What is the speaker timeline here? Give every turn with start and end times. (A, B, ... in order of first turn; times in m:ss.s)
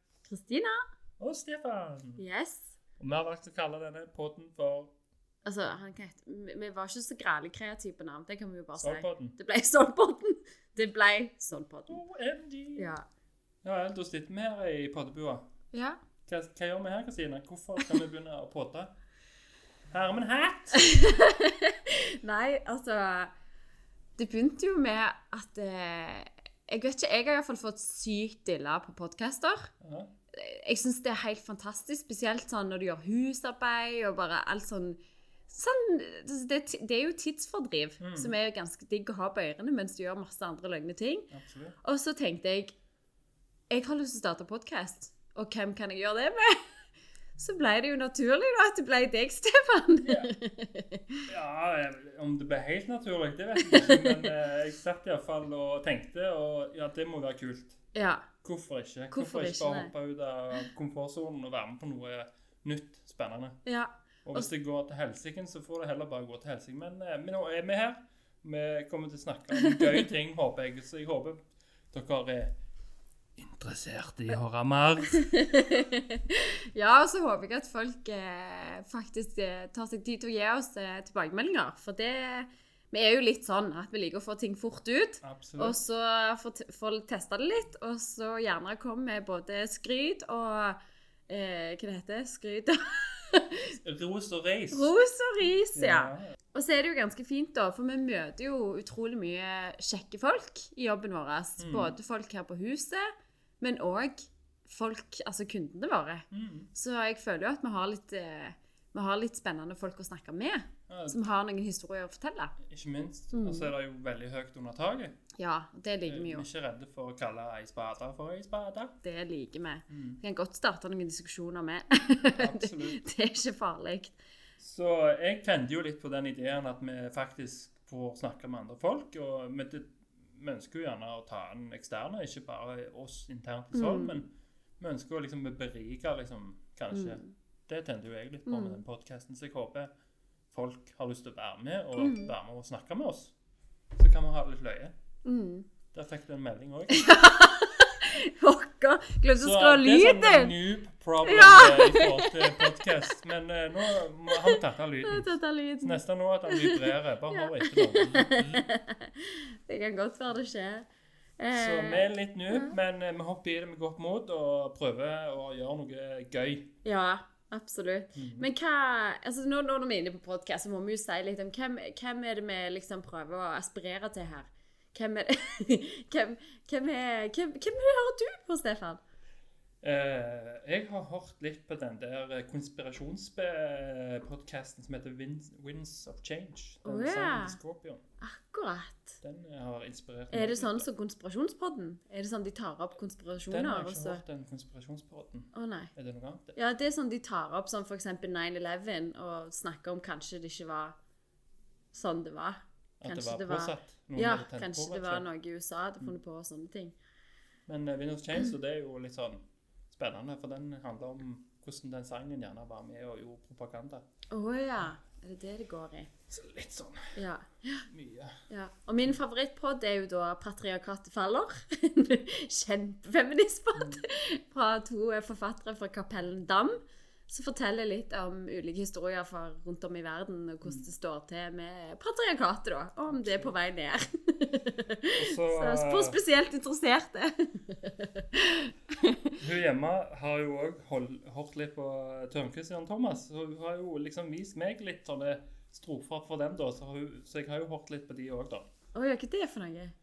0:00.2-0:00.8 A
0:01.2-0:02.2 B
0:02.2-0:02.7 A
0:03.0-0:04.9 B
0:05.4-0:12.0 A
0:08.8-0:09.4 B
0:11.9-0:12.9 B
0:12.8-0:13.0 A
0:13.6-0:15.4 B
0:15.7-0:16.0 A
0:16.3-0:18.9 B
0:19.9-0:20.8 B
0:20.7-0:23.3 A
0:24.2-0:29.7 A
0:29.8-0:30.1 B
0:30.3-0:41.3 A
0:38.0-0:38.3 B
0:41.3-0:41.8 B
0:41.8-0:42.7 A
0:43.7-0:46.6 A
0:47.4-0:51.2 A
0:50.0-0:50.3 B
0:51.3-0:57.8 B
0:53.6-0:54.3 A
0:57.9-0:58.3 A
0:58.4-1:03.6 B
0:59.1-0:59.9 A
1:03.6-1:04.5 A
1:04.2-1:12.5 B
1:09.5-1:10.0 A
1:13.4-1:15.2 B
1:15.1-1:30.8 A
1:25.2-1:25.8 B
1:31.3-1:33.7 A
1:33.8-1:34.9 B
1:34.7-1:43.0 A
1:35.7-1:36.3 B
1:41.6-1:42.0 B
1:43.6-1:52.6 A
1:46.3-1:46.7 B
1:50.9-1:51.2 B
1:52.7-1:55.2 B
1:53.3-1:53.7 A
1:55.4-1:56.5 A
1:56.0-1:59.0 B
1:59.0-2:04.2 A
1:59.9-2:00.2 B
2:02.4-2:03.0 B
2:04.6-2:19.9 B
2:13.7-2:14.2 A
2:16.9-2:17.3 A
2:18.4-2:18.8 A
2:20.5-2:23.3 B
2:22.0-2:22.3 A
2:24.0-2:24.9 B
2:25.2-2:25.7 A
2:25.9-2:27.2 B
2:26.9-2:30.5 A
2:29.4-2:38.6 B
2:31.2-2:32.8 A
2:34.3-2:40.8 A
2:41.4-2:42.8 A
2:41.5-2:46.7 B
2:46.8-2:59.0 A
2:48.1-2:48.5 B
2:59.8-3:08.0 B
3:06.8-3:07.6 A
3:08.2-3:09.2 A
3:09.2-3:10.9 B
3:10.3-3:14.2 A
3:13.5-3:16.6 B
3:15.5-3:15.9 A
3:16.5-3:21.0 A
3:21.9-3:26.9 A
3:23.0-3:25.3 B
3:27.7-3:34.0 B
3:34.3-3:36.1 A
3:36.3-3:37.2 B
3:37.1-3:37.9 A
3:37.9-3:38.4 B
3:38.5-3:59.4 A
3:43.7-3:44.0 B
3:53.1-3:53.5 B
3:55.1-3:56.2 B
3:59.4-4:08.6 B
4:08.9-4:09.9 A